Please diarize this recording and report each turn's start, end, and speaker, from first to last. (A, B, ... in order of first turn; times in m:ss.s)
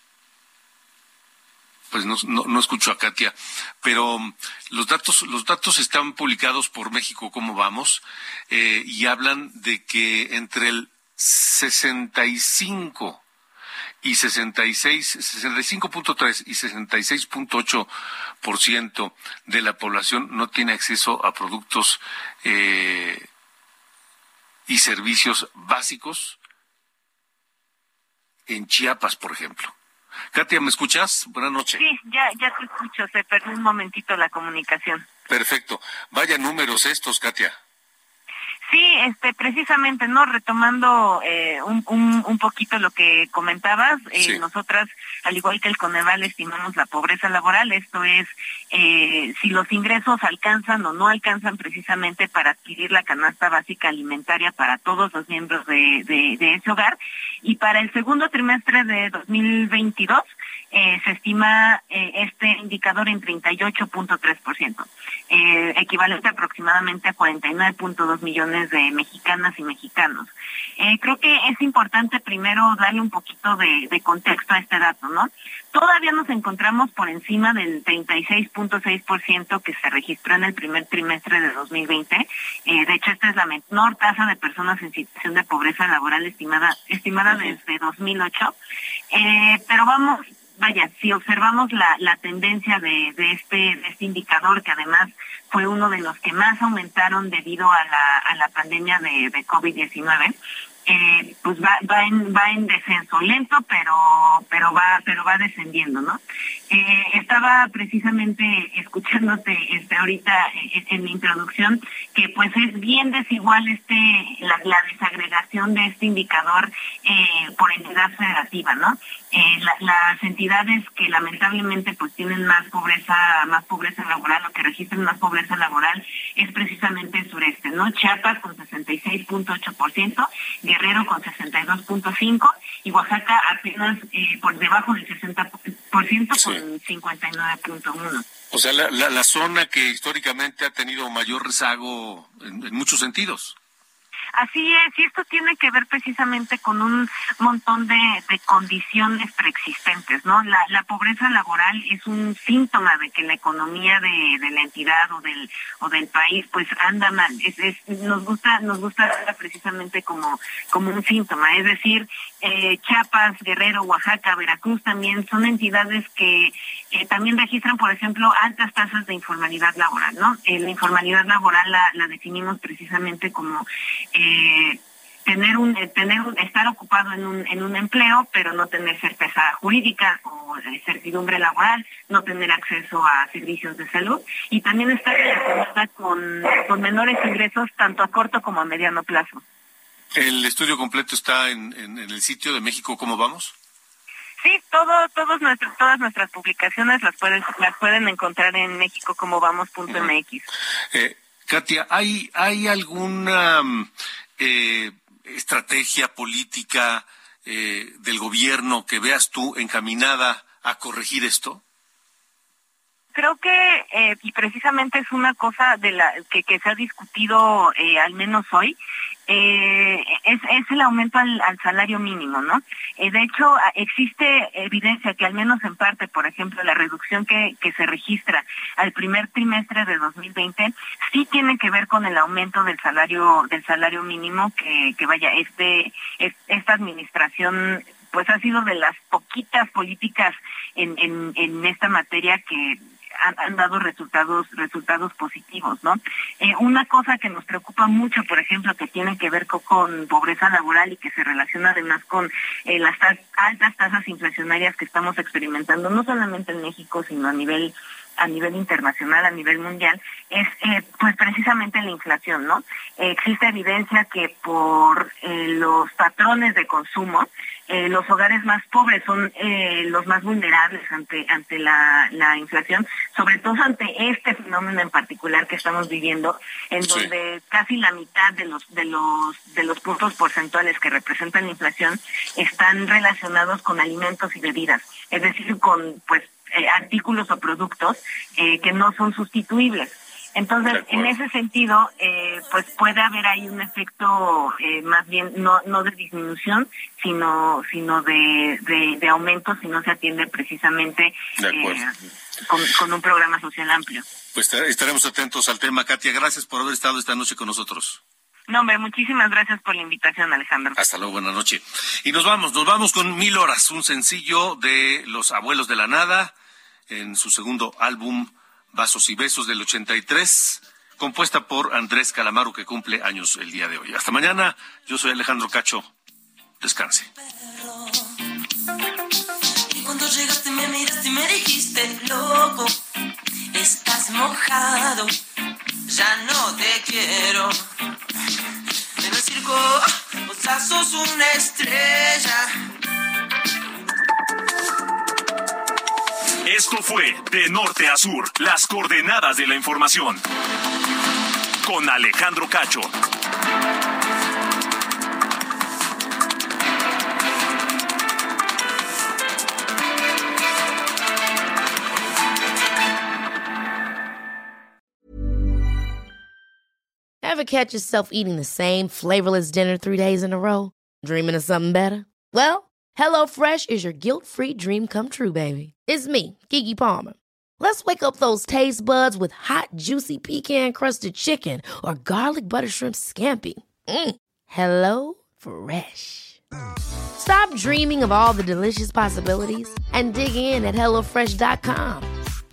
0:01.9-0:13.2 A
0:14.0-0:17.9 A
0:18.4-0:23.3 A
0:24.7-0:26.4 A
0:28.5-0:29.7 A
0:30.3-0:31.8 A
0:31.7-0:35.1 B
0:35.3-0:37.6 A
0:38.7-1:28.6 B
1:29.1-2:18.3 B
2:16.4-2:16.6 A
2:18.5-2:23.6 A
2:24.3-3:09.4 B
3:10.1-3:13.5 A
3:14.4-3:20.5 B
3:20.9-3:31.6 A
3:33.1-5:04.1 B
4:36.8-4:37.1 A
4:50.6-4:51.2 A
5:01.4-5:01.8 A
5:04.3-5:08.0 A
5:08.5-5:10.8 B
5:10.8-5:16.3 A
5:16.9-5:25.9 A
5:26.6-5:27.1 A
5:27.2-5:28.1 C
5:29.7-5:32.8 C
5:33.5-5:35.2 C
5:35.9-5:37.6 C
5:39.0-5:42.5 C
5:46.4-5:50.2 D
5:51.6-5:52.9 D
6:07.2-6:26.4 E
6:27.2-6:32.1 E